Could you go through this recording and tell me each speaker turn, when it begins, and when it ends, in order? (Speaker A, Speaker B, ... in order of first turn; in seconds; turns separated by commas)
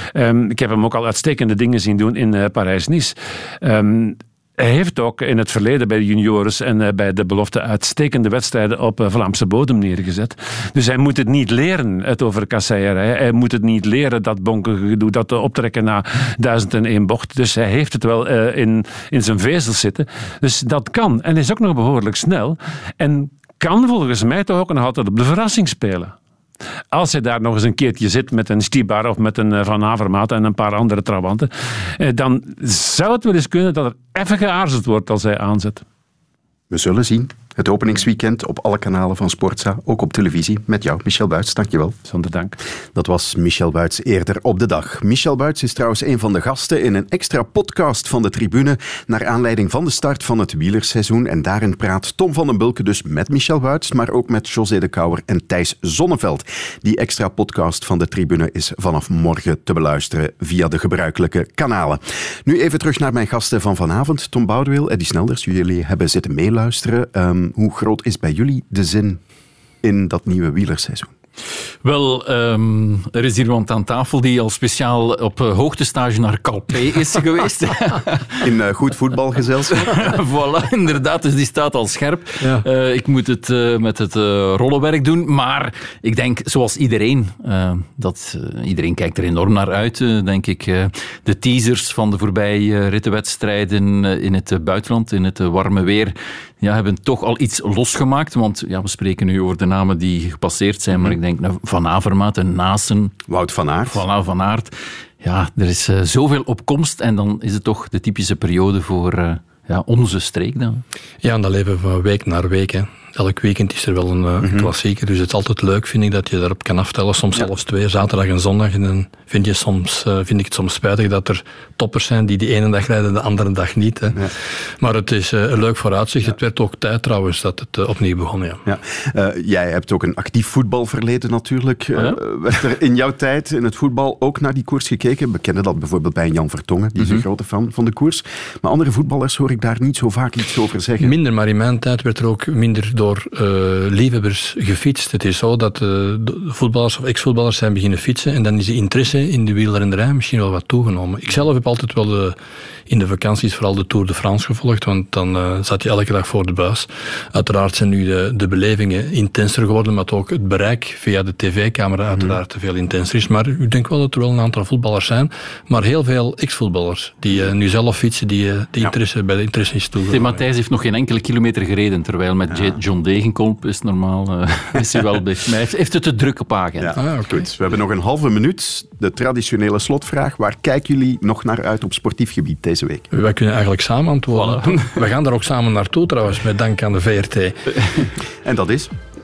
Speaker A: 0.1-26.1, Speaker A: 26.9-35.8, Speaker B: 36.7-42.0, Speaker A: 42.1-42.6, Speaker B: 42.9-69.2, Speaker B: 69.8-71.1, Speaker C: 71.8-78.5, Speaker B: 78.4-80.1, Speaker C: 79.8-103.2, Speaker D: 82.4-82.7, Speaker B: 103.3-104.0, Speaker C: 103.9-110.8, Speaker D: 111.2-124.3, Speaker B: 114.4-114.7, Speaker D: 124.8-128.6, Speaker B: 128.7-141.1, Speaker D: 141.0-152.4, Speaker D: 152.9-170.4, Speaker C: 170.1-177.0, Speaker B: 172.5-172.8, Speaker B: 176.8-183.1, Speaker D: 177.0-177.4, Speaker D: 183.1-187.6, Speaker B: 188.4-188.9